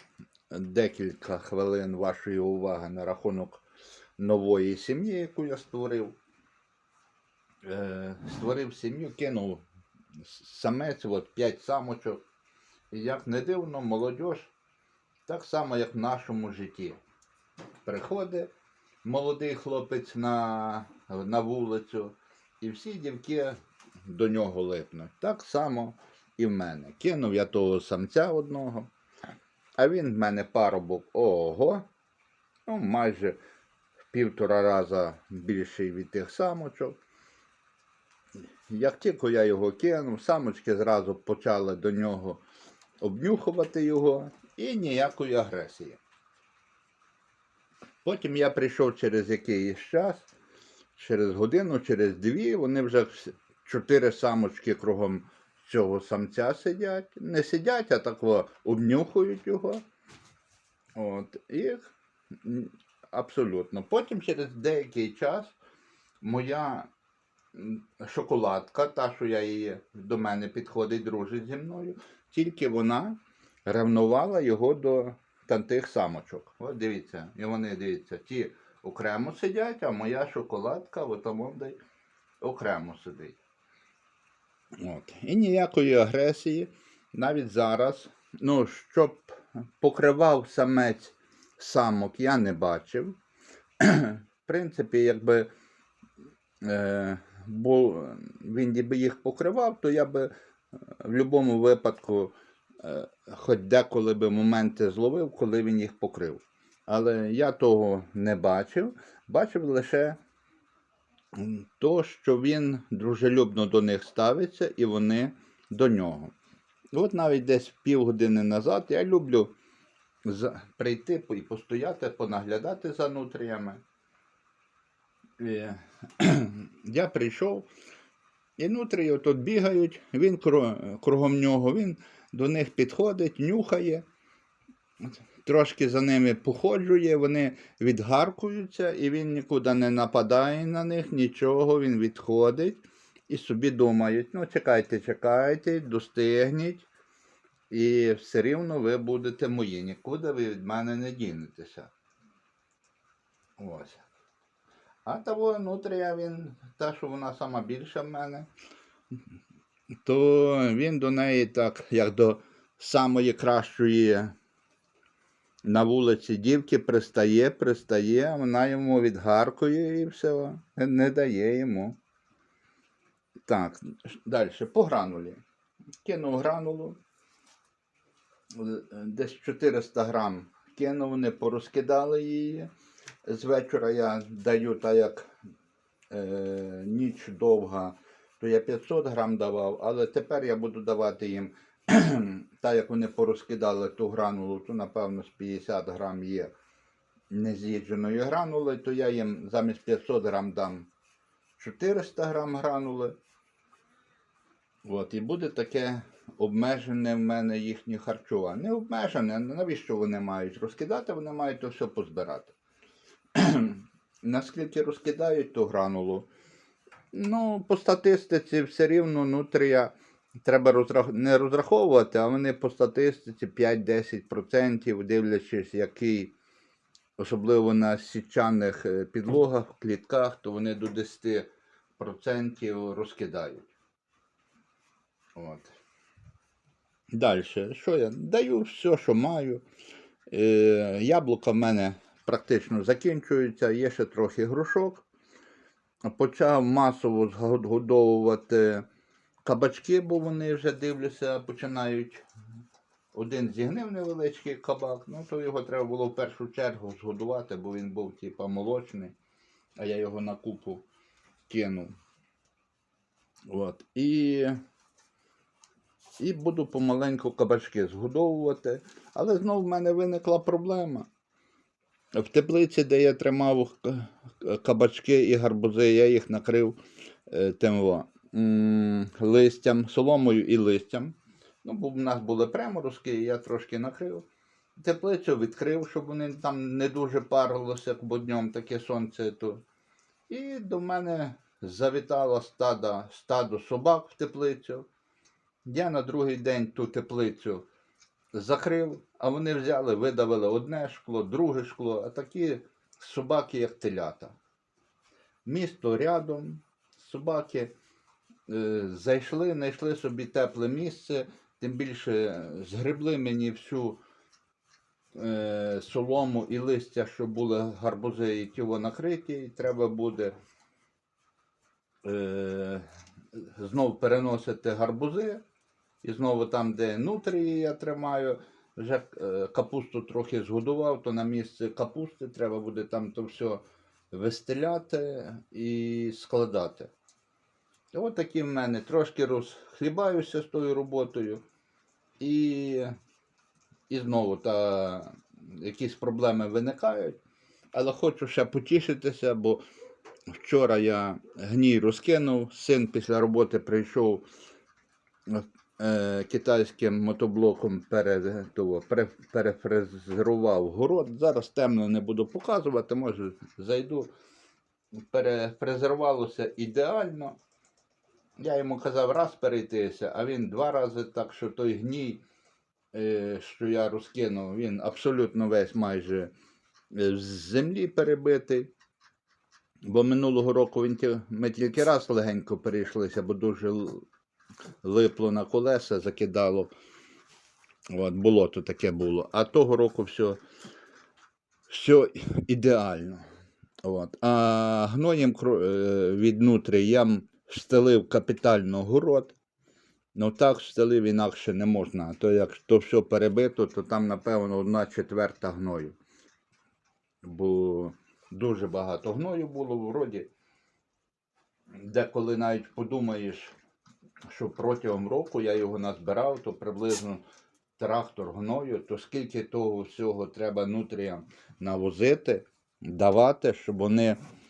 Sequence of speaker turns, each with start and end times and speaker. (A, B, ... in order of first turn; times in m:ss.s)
0:00.5-0:03.6 A
0:04.2-0:06.2 A
0:07.6-0:09.6 A
0:10.2-0:12.2 A
0:12.9-0:14.5 A
0:15.3-0:17.0 A
0:17.8-0:18.5 A
0:19.0-0:28.9 A
0:29.8-0:31.8 A
0:32.7-0:33.4 A
0:34.1-0:37.0 A
0:38.7-0:42.4 A
0:43.0-0:46.0 A
0:48.0-0:50.3 A
0:51.0-0:59.8 A
1:00.9-1:05.5 A
1:06.2-1:06.9 A
1:07.5-1:21.8 A
1:22.4-1:23.4 A
1:24.8-1:33.2 A
1:33.8-1:35.5 A
1:36.6-1:50.2 A
1:51.3-1:56.3 A
1:56.9-1:59.5 A
2:00.2-2:03.8 A
2:05.4-2:07.7 A
2:08.6-2:14.0 A
2:15.1-2:26.9 A
2:27.7-2:31.9 A
2:33.6-2:34.0 A
2:35.0-2:38.5 A
2:40.0-2:44.3 A
2:45.6-2:52.0 A
2:53.5-2:55.4 A
2:56.0-2:57.0 A
2:58.5-3:02.7 A
3:03.2-3:05.3 A
3:06.1-3:16.5 A
3:17.3-3:20.9 A
3:21.6-3:23.2 A
3:24.8-3:32.5 A
3:33.3-3:36.3 A
3:37.1-3:46.3 A
3:47.2-3:53.7 A
3:55.3-3:55.7 A
3:57.1-3:59.6 A
4:00.3-4:05.0 A
4:06.0-4:08.8 A
4:09.4-4:12.2 A
4:13.1-4:19.1 A
4:19.8-4:20.8 A
4:21.5-4:22.0 A
4:23.5-4:24.6 A
4:26.2-4:31.1 A
4:32.1-4:49.6 A
4:50.3-4:54.9 A
4:55.6-4:57.7 A
4:58.3-5:04.4 A
5:05.4-5:07.7 A
5:08.5-5:14.0 A
5:15.1-5:20.3 A
5:22.0-5:25.4 A
5:26.0-5:36.9 A
5:37.9-5:41.4 A
5:42.2-5:42.9 A
5:43.9-5:47.2 A
5:47.7-5:49.6 A
5:50.3-5:54.2 A
5:55.3-6:04.1 A
6:05.1-6:07.4 A
6:08.4-6:12.2 A
6:12.9-6:16.3 A
6:16.9-6:18.7 A
6:19.9-6:24.0 A
6:24.8-6:26.7 A
6:27.9-6:30.4 A
6:31.7-6:33.2 A
6:33.8-6:39.4 A
6:40.1-6:46.0 A
6:47.2-6:50.3 A
6:51.7-6:53.5 A
6:54.3-6:57.2 A
6:57.8-7:04.2 A